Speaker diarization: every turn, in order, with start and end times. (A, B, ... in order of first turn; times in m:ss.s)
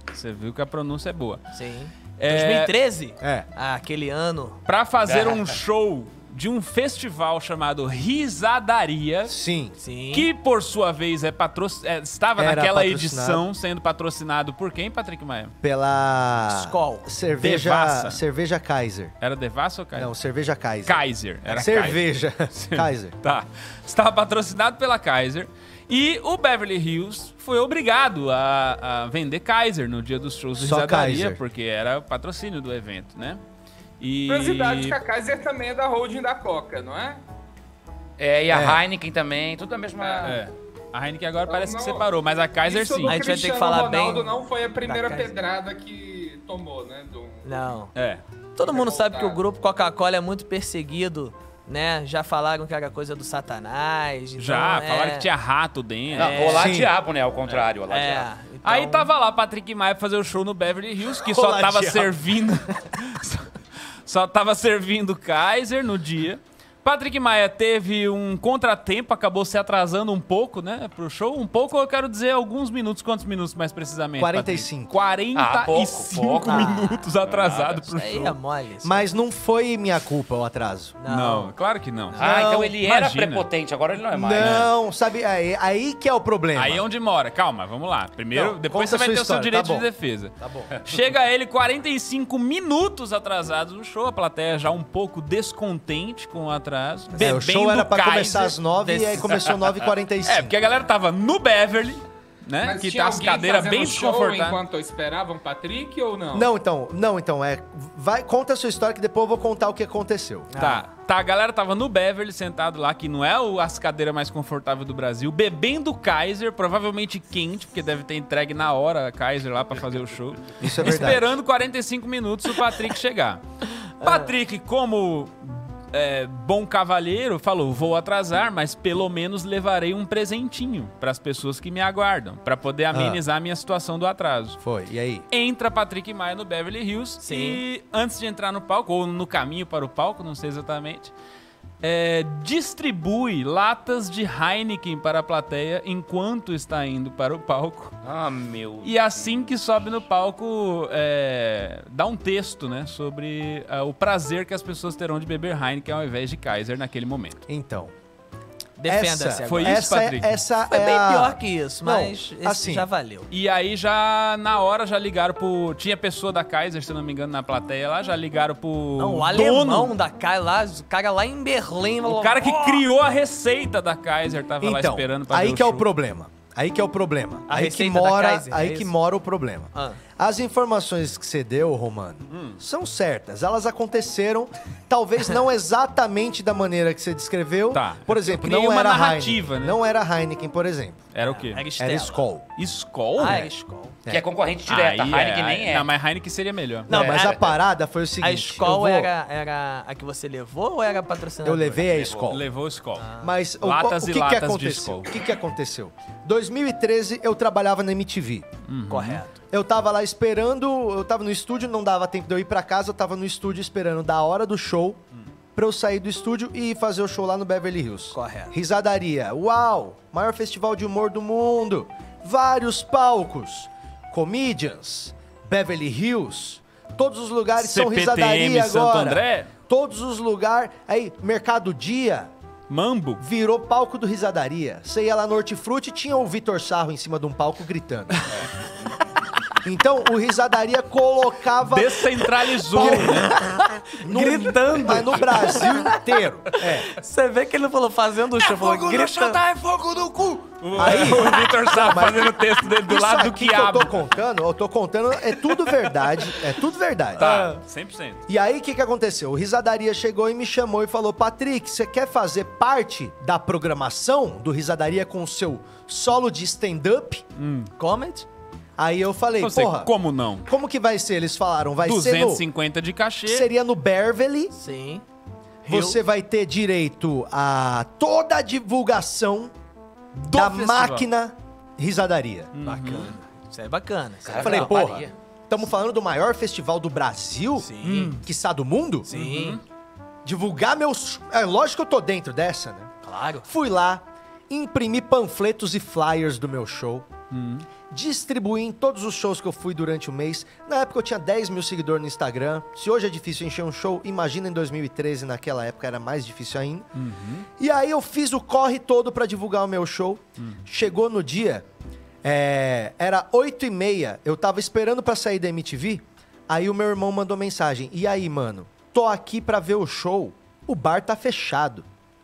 0:00.1-0:01.4 A
0:01.5-0:04.6 B
0:02.2-0:02.7 A
0:03.2-0:03.5 C
0:04.6-0:09.3 A
0:05.1-0:05.5 D
0:09.3-0:09.7 C
0:09.8-0:10.3 B
0:10.1-0:15.5 A
0:12.4-0:13.4 C
0:15.6-0:19.1 C
0:16.5-0:17.1 B
0:17.4-0:18.2 A
0:19.2-0:20.1 A
0:19.9-0:23.2 C
0:20.8-0:33.4 A
0:30.6-0:31.4 C
0:34.0-0:35.0 A
0:34.3-0:37.2 E
0:38.2-0:40.4 D
0:38.5-0:38.8 C
0:40.0-0:40.4 E
0:40.2-0:43.2 A
0:41.4-0:47.5 E
0:43.0-0:45.3 B
0:47.4-0:47.9 B
0:47.9-0:48.2 A
0:48.6-0:55.3 B
0:48.6-0:49.4 E
0:54.4-0:56.6 A
0:56.1-0:58.3 D
0:56.1-0:56.8 B
0:56.6-0:56.9 C
0:57.9-0:59.1 B
0:58.6-1:03.5 A
1:01.2-1:02.2 C
1:04.0-1:18.4 A
1:14.2-1:14.9 C
1:15.3-1:17.8 D
1:16.4-1:17.1 B
1:17.9-1:19.0 B
1:18.8-1:21.0 C
1:21.0-1:21.5 B
1:21.0-1:23.4 A
1:22.2-1:24.7 D
1:22.2-1:22.7 C
1:24.1-1:26.8 C
1:24.4-1:24.7 A
1:26.6-1:38.6 A
1:28.3-1:29.9 C
1:30.4-1:30.7 C
1:37.2-1:40.6 C
1:38.8-1:39.4 B
1:40.2-1:44.6 A
1:42.6-1:46.5 E
1:46.3-1:50.5 C
1:50.5-1:50.9 B
1:50.5-2:03.4 A
2:00.6-2:01.3 C
2:04.0-2:04.3 B
2:04.0-2:14.6 A
2:12.9-2:13.2 C
2:14.6-2:15.2 C
2:15.3-2:21.1 A
2:17.2-2:17.6 B
2:21.8-2:27.9 A
2:28.0-2:29.4 D
2:28.8-2:37.4 A
2:37.5-2:37.9 C
2:38.8-2:40.0 B
2:38.9-2:42.9 C
2:39.4-2:40.4 A
2:40.7-2:43.3 B
2:43.3-2:49.9 A
2:49.0-2:52.8 B
2:52.0-2:55.8 A
2:54.6-3:11.0 C
2:57.5-2:58.9 B
2:59.7-3:00.0 B
3:02.3-3:02.6 A
3:07.7-3:09.8 A
3:11.1-3:11.7 A
3:11.2-3:12.2 B
3:11.8-3:12.5 C
3:12.6-3:13.5 A
3:13.2-3:14.0 B
3:14.1-3:15.9 D
3:14.7-3:16.9 A
3:16.9-3:17.5 B
3:16.9-3:19.1 C
3:18.2-3:21.8 B
3:21.4-3:22.4 C
3:21.8-3:22.4 D
3:22.3-3:25.1 A
3:23.0-3:23.3 B
3:23.2-3:28.5 C
3:28.7-3:29.2 A
3:28.9-3:29.3 B
3:29.5-3:35.0 C
3:35.5-3:52.3 C
3:38.1-3:38.5 B
3:47.6-3:49.5 A
3:52.7-3:53.2 A
3:53.2-3:58.2 C
3:59.6-4:03.4 C
4:01.6-4:03.4 A
4:02.7-4:06.0 B
4:04.0-4:06.9 C
4:06.6-4:09.4 B
4:08.5-4:13.9 A
4:10.5-4:17.3 C
4:17.2-4:18.2 A
4:17.2-4:17.6 B
4:18.3-4:27.2 C
4:27.4-4:27.7 A
4:27.8-4:28.2 B
4:28.8-4:29.9 C
4:29.4-4:30.5 A
4:30.5-4:32.4 C
4:31.8-4:33.5 A
4:33.2-4:34.5 C
4:34.5-4:35.0 B
4:35.6-4:36.0 B
4:35.6-4:39.5 C
4:40.2-4:41.0 A
4:40.3-4:42.5 C
4:42.5-4:43.2 A
4:42.6-4:45.0 B
4:44.2-4:45.1 D
4:44.4-4:49.1 C
4:47.6-4:48.2 B
4:47.8-4:48.2 A
4:49.1-4:49.6 B
4:49.1-4:49.6 A
4:50.2-4:52.9 C
4:53.0-4:53.5 B
4:53.4-4:57.1 C
4:57.3-4:57.7 A
4:57.9-5:06.9 C
5:06.9-5:07.5 A
5:07.6-5:11.6 C
5:12.2-5:21.8 C